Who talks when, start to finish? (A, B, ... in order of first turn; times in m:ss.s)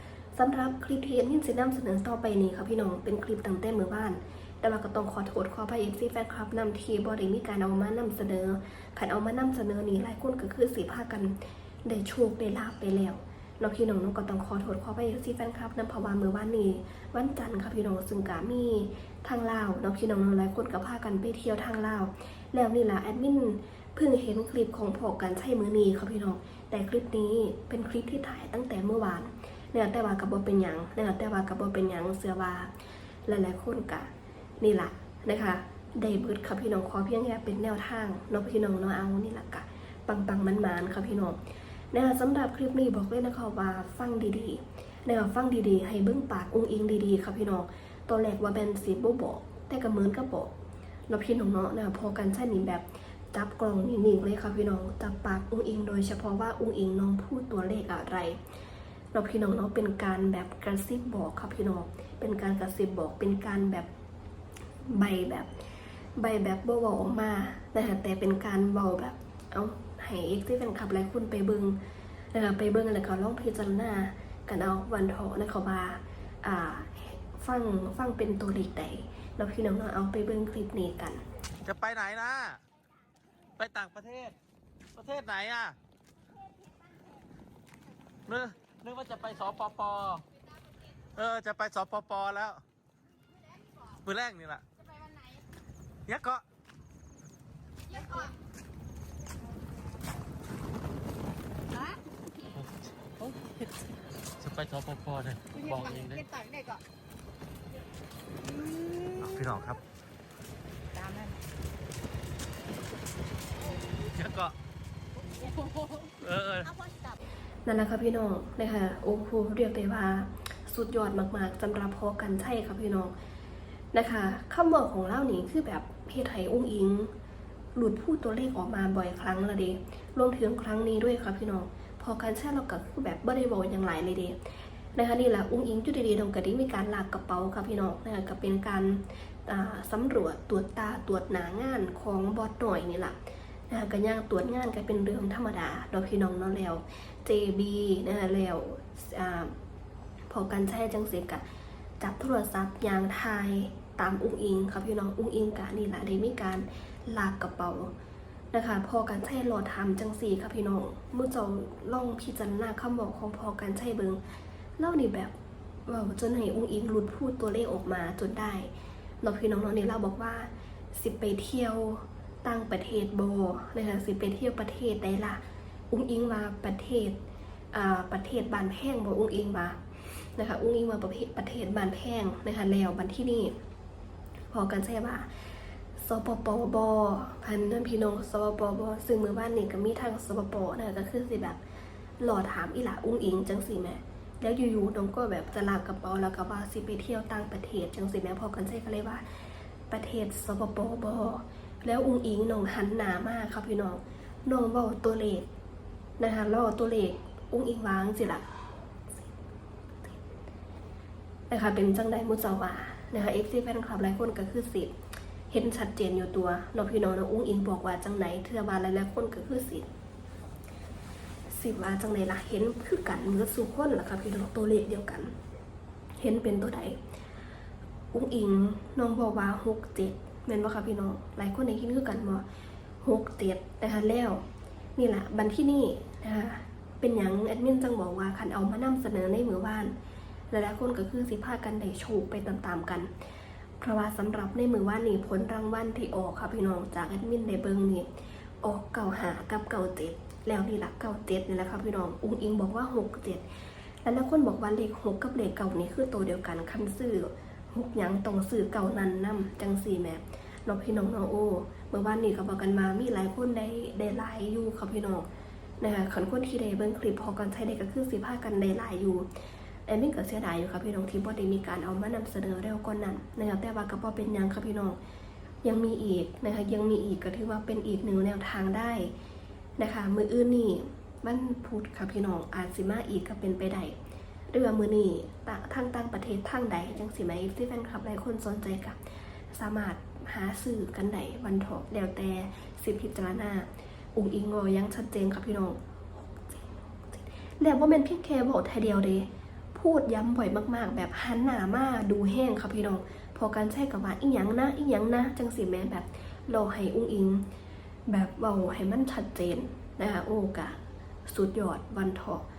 0:00.3-0:32.7 A
0:33.2-0:41.4 A
0:41.9-0:50.5 A
0:51.1-0:58.4 A
0:59.1-1:03.9 A
1:04.9-1:05.5 A
1:06.2-1:11.8 A
1:12.3-1:21.2 A
1:21.6-1:22.6 B
1:23.6-1:24.4 B
1:25.0-1:25.8 B
1:28.3-1:30.2 B
1:31.1-1:32.6 B
1:33.8-1:34.6 B
1:34.9-1:35.4 C
1:36.1-1:36.4 B
1:37.9-1:38.4 C
1:42.5-1:43.7 B
1:44.4-1:46.3 B
1:46.0-1:46.8 C
1:48.6-1:49.2 C
1:49.0-1:49.8 B
1:50.9-1:51.3 C
1:54.1-1:54.5 B
1:55.4-1:56.0 C
1:56.0-1:56.8 B
1:56.9-1:57.1 C
1:57.6-2:03.1 A
2:03.9-2:07.1 A
2:07.8-2:14.4 A
2:15.0-2:23.2 A
2:23.7-2:29.5 A
2:30.3-2:31.4 A
2:32.0-2:37.9 A
2:38.5-2:44.2 A
2:44.8-2:48.7 A
2:49.2-2:57.2 A
2:57.7-3:03.5 A
3:04.5-3:05.3 A
3:06.0-3:11.6 A
3:12.2-3:19.2 A
3:19.9-3:25.5 A
3:26.2-3:28.5 A
3:31.5-3:34.9 A
3:35.5-3:39.9 A
3:41.5-3:45.3 A
3:46.2-3:47.0 A
3:48.1-3:52.4 A
3:53.0-3:54.4 A
3:55.0-3:59.9 A
4:00.5-4:03.1 A
4:03.8-4:08.1 A
4:08.6-4:13.4 A
4:14.0-4:25.3 A
4:25.8-4:29.3 A
4:29.8-4:35.0 A
4:35.6-4:39.1 A
4:39.8-4:44.0 A
4:44.5-4:49.0 A
4:49.5-5:07.4 A
5:08.1-5:12.4 A